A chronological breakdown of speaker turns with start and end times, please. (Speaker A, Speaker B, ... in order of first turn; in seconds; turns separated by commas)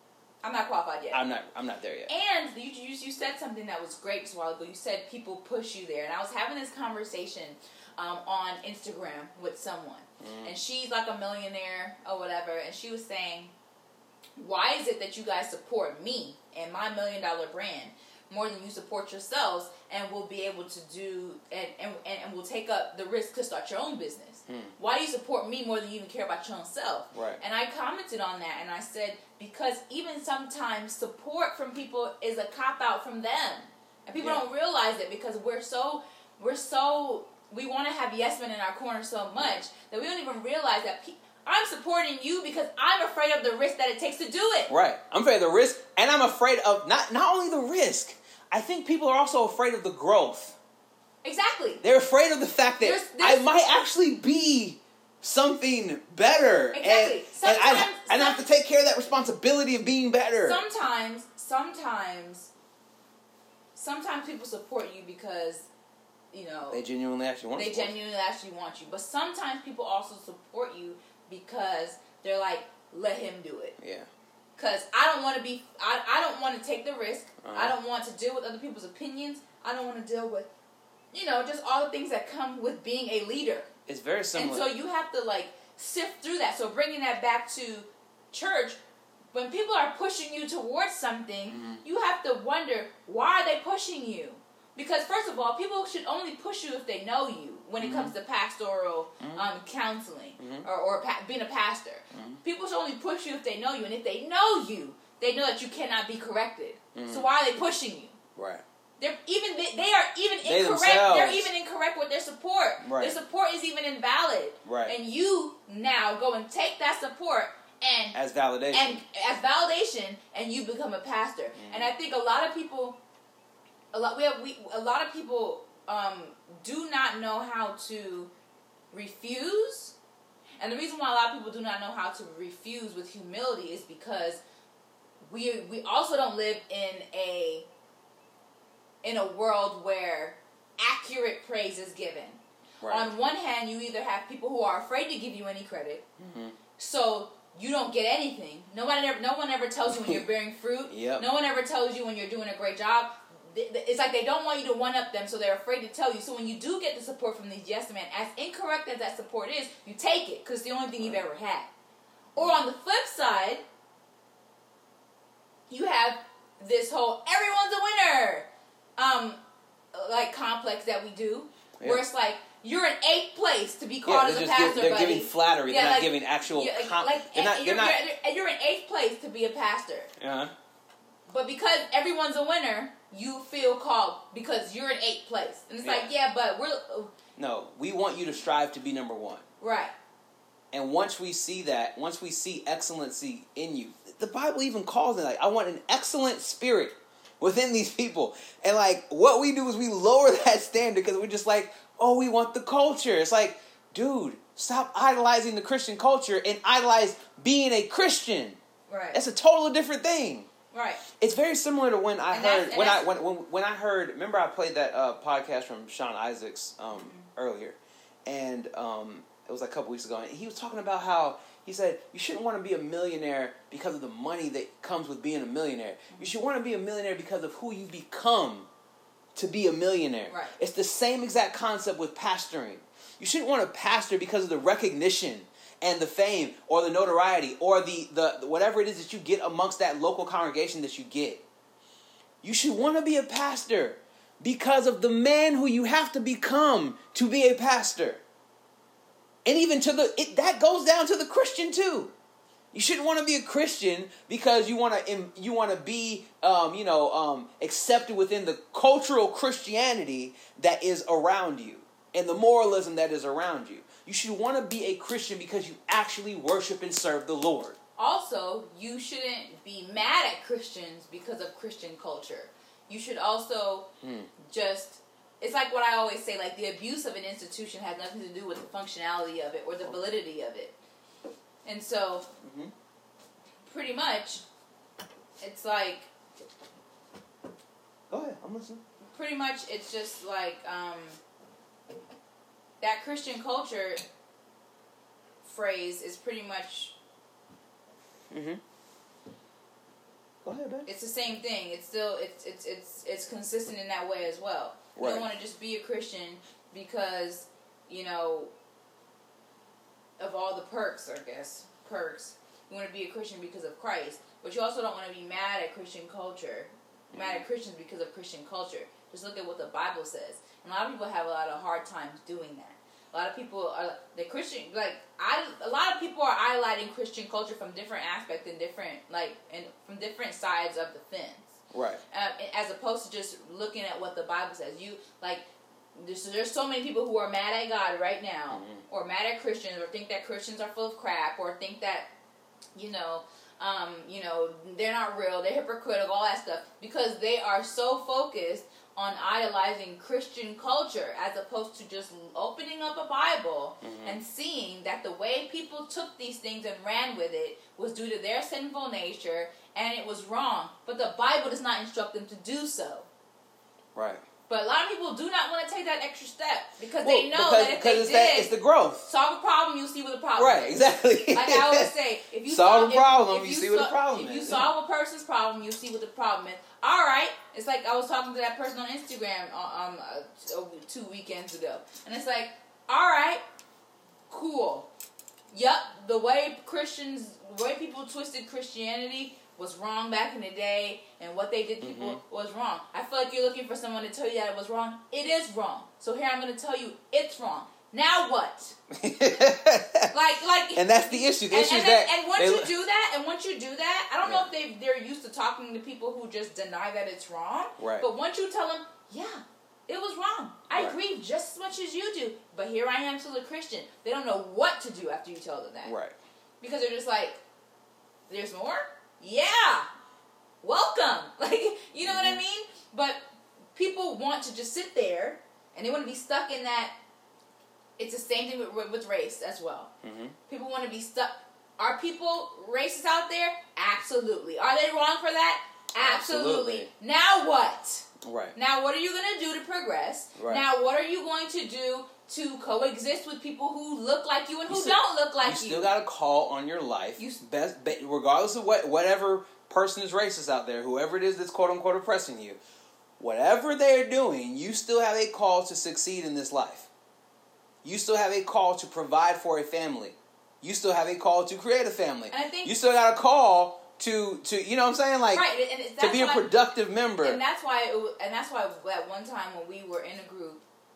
Speaker A: 0.4-1.2, Speaker B: 1.1-2.1, Speaker A: 2.1-13.5, Speaker B: 10.2-10.5, Speaker A: 14.4-44.7, Speaker B: 24.5-24.7, Speaker B: 27.1-27.4, Speaker B: 34.2-34.4, Speaker B: 39.4-39.6, Speaker B: 44.7-50.6, Speaker A: 51.2-51.8, Speaker B: 51.8-60.6, Speaker A: 52.8-53.5, Speaker A: 56.7-58.5, Speaker A: 60.4-62.5, Speaker A: 63.7-65.7, Speaker A: 66.3-66.8, Speaker B: 66.7-67.9, Speaker A: 67.5-73.8, Speaker B: 73.8-74.1, Speaker A: 74.6-80.5, Speaker B: 77.4-77.8, Speaker A: 81.1-83.7, Speaker B: 83.9-84.7, Speaker A: 84.3-88.8, Speaker A: 89.3-108.2, Speaker B: 91.5-91.8, Speaker B: 97.8-98.1, Speaker B: 100.4-100.7, Speaker B: 102.1-102.4, Speaker B: 106.9-107.3, Speaker B: 108.3-108.6, Speaker A: 109.0-118.2, Speaker B: 110.4-111.5, Speaker B: 112.8-113.2, Speaker B: 114.6-114.9, Speaker B: 118.1-119.0, Speaker A: 118.7-123.0, Speaker B: 121.6-121.9, Speaker A: 123.9-128.3, Speaker A: 128.9-129.9, Speaker A: 130.6-134.4, Speaker A: 135.3-137.7, Speaker A: 139.0-146.0, Speaker B: 142.8-143.1, Speaker B: 146.2-146.6, Speaker A: 146.8-161.7, Speaker B: 149.9-150.2, Speaker B: 150.9-151.3, Speaker A: 162.3-163.6, Speaker B: 162.4-162.6, Speaker A: 165.7-169.4, Speaker A: 169.9-180.1, Speaker B: 174.0-178.0, Speaker B: 180.2-180.5, Speaker A: 181.3-187.1, Speaker B: 185.8-186.1, Speaker B: 187.3-189.4, Speaker A: 189.6-189.9, Speaker B: 190.7-208.6, Speaker A: 208.9-209.2, Speaker B: 209.1-210.5, Speaker A: 210.7-211.0, Speaker B: 211.0-228.7, Speaker A: 212.3-213.1, Speaker A: 216.9-217.3, Speaker B: 229.3-241.4, Speaker A: 230.3-230.6, Speaker B: 242.4-248.2, Speaker B: 249.4-252.1, Speaker B: 252.7-267.8, Speaker A: 268.0-273.9, Speaker B: 274.0-274.3, Speaker A: 274.4-280.7, Speaker A: 281.6-282.3, Speaker B: 282.4-282.7, Speaker A: 283.6-284.4, Speaker A: 285.4-286.1, Speaker B: 288.1-288.8, Speaker A: 289.1-291.2, Speaker A: 292.8-294.0, Speaker A: 295.4-296.9, Speaker B: 298.3-298.6, Speaker B: 300.4-300.9, Speaker A: 300.9-308.5, Speaker B: 305.0-305.3, Speaker A: 310.2-331.6, Speaker B: 317.1-317.4, Speaker B: 331.7-332.0, Speaker A: 332.1-335.4, Speaker A: 335.9-342.1, Speaker B: 338.5-338.8, Speaker A: 342.7-363.1, Speaker B: 353.8-354.2, Speaker B: 363.9-364.2, Speaker A: 364.5-368.5, Speaker B: 367.0-369.1, Speaker A: 369.0-383.4, Speaker B: 370.4-371.9, Speaker B: 372.4-374.7, Speaker A: 384.3-384.9, Speaker A: 385.5-398.8, Speaker B: 391.8-392.2, Speaker B: 398.9-400.1, Speaker A: 400.1-415.9, Speaker B: 400.7-402.7, Speaker B: 404.2-404.5, Speaker B: 407.8-408.1, Speaker B: 415.8-416.1, Speaker A: 416.6-417.4, Speaker A: 418.3-419.9, Speaker A: 420.6-423.2, Speaker B: 422.0-422.4, Speaker A: 423.7-426.9, Speaker A: 428.0-429.9, Speaker B: 430.0-430.4, Speaker A: 430.5-445.9, Speaker B: 436.0-436.9, Speaker B: 438.2-438.6, Speaker B: 440.4-440.6, Speaker B: 444.7-452.6, Speaker B: 453.2-456.9, Speaker B: 457.8-465.4, Speaker A: 462.3-462.7, Speaker A: 465.3-466.5, Speaker B: 466.0-467.4, Speaker A: 467.2-470.6